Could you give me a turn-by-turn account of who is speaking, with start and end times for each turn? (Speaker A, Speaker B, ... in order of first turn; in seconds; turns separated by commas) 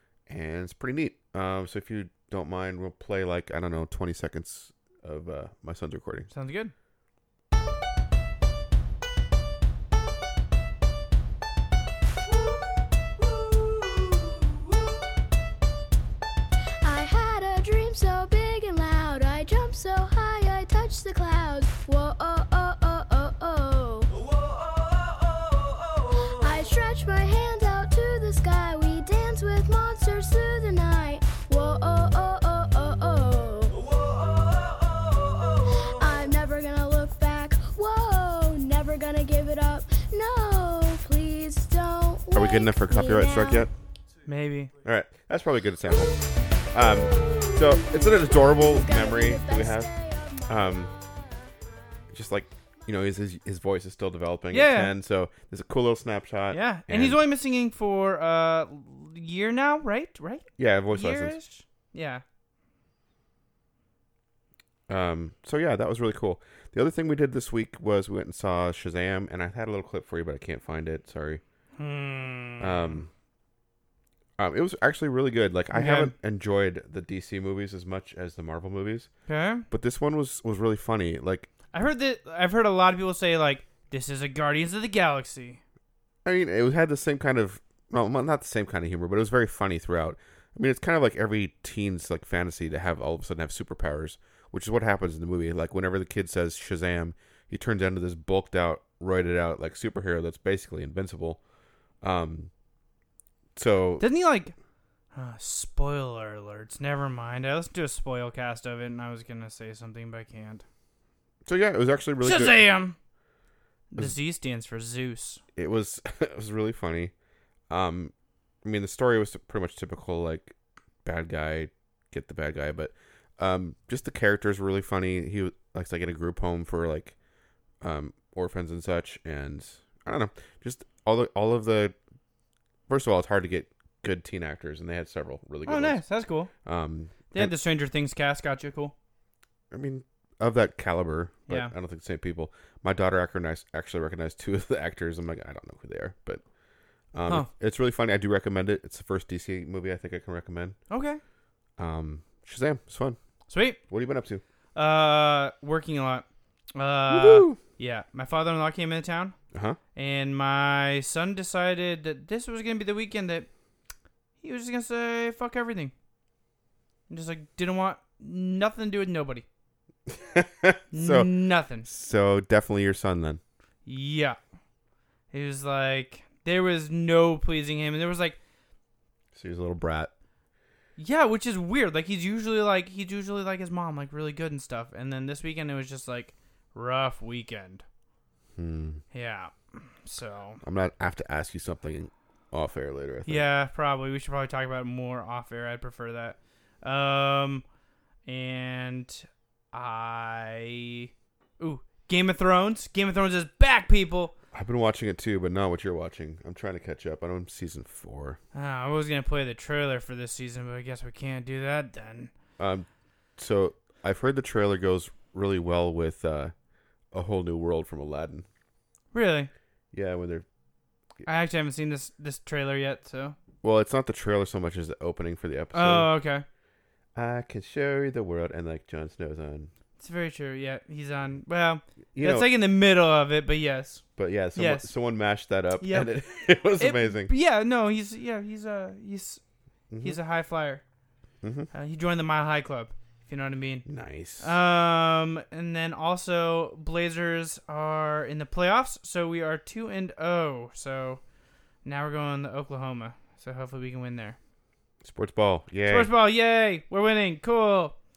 Speaker A: 0.3-6.3, Speaker B: 6.3-6.7, Speaker C: 16.8-24.1, Speaker C: 26.3-33.9, Speaker C: 35.8-43.7, Speaker A: 42.3-43.7, Speaker B: 44.3-44.7, Speaker A: 44.8-46.2, Speaker A: 46.7-49.9, Speaker C: 48.5-50.6, Speaker A: 50.5-50.9, Speaker A: 52.1-57.2, Speaker B: 54.5-54.9, Speaker B: 56.5-62.2, Speaker A: 60.6-61.4, Speaker A: 64.9-71.4, Speaker B: 71.8-73.0, Speaker A: 72.6-73.1, Speaker A: 74.4-79.1, Speaker B: 75.7-76.1, Speaker B: 79.3-79.7, Speaker A: 79.7-81.5, Speaker B: 81.7-85.6, Speaker A: 86.2-101.4, Speaker A: 102.0-102.5, Speaker A: 103.5-104.0, Speaker B: 104.0-104.5, Speaker B: 105.1-110.6, Speaker A: 111.4-112.6, Speaker B: 112.2-113.0, Speaker B: 113.9-115.4, Speaker A: 115.5-117.1, Speaker A: 117.7-118.1, Speaker A: 118.6-120.5, Speaker A: 121.0-127.1, Speaker A: 127.8-131.9, Speaker A: 132.9-136.0, Speaker B: 135.6-136.5, Speaker A: 136.6-137.5, Speaker B: 137.3-138.9, Speaker A: 139.7-146.4, Speaker B: 141.5-141.7, Speaker A: 147.1-150.8, Speaker B: 150.9-151.2, Speaker A: 151.8-153.2, Speaker B: 153.5-153.8, Speaker A: 153.9-154.4, Speaker B: 154.8-159.3, Speaker A: 157.1-157.6, Speaker A: 159.5-159.8, Speaker B: 159.9-163.5, Speaker B: 164.4-165.9, Speaker B: 167.1-169.4, Speaker A: 170.1-173.4, Speaker B: 170.9-171.9, Speaker B: 173.8-174.4, Speaker B: 175.3-178.4, Speaker A: 179.3-180.1, Speaker B: 181.0-187.8, Speaker A: 188.6-189.0, Speaker B: 189.1-190.6, Speaker A: 190.6-193.4, Speaker B: 193.2-197.6, Speaker B: 198.2-204.3, Speaker A: 204.5-208.4, Speaker B: 208.5-212.3, Speaker A: 212.6-216.5, Speaker A: 217.1-218.4, Speaker B: 219.1-219.5, Speaker A: 219.9-220.4, Speaker B: 221.2-223.3, Speaker A: 223.6-226.1, Speaker B: 225.7-226.4, Speaker A: 227.1-229.7, Speaker B: 230.0-234.0, Speaker A: 232.1-232.5, Speaker A: 234.2-237.3, Speaker B: 234.5-234.9, Speaker B: 235.8-236.1, Speaker B: 236.8-239.4, Speaker A: 239.9-240.2, Speaker B: 240.0-240.8, Speaker A: 241.4-241.7, Speaker B: 241.7-243.8, Speaker A: 243.8-244.6, Speaker B: 244.4-251.2, Speaker B: 251.8-254.4, Speaker A: 255.0-256.1, Speaker B: 255.9-257.9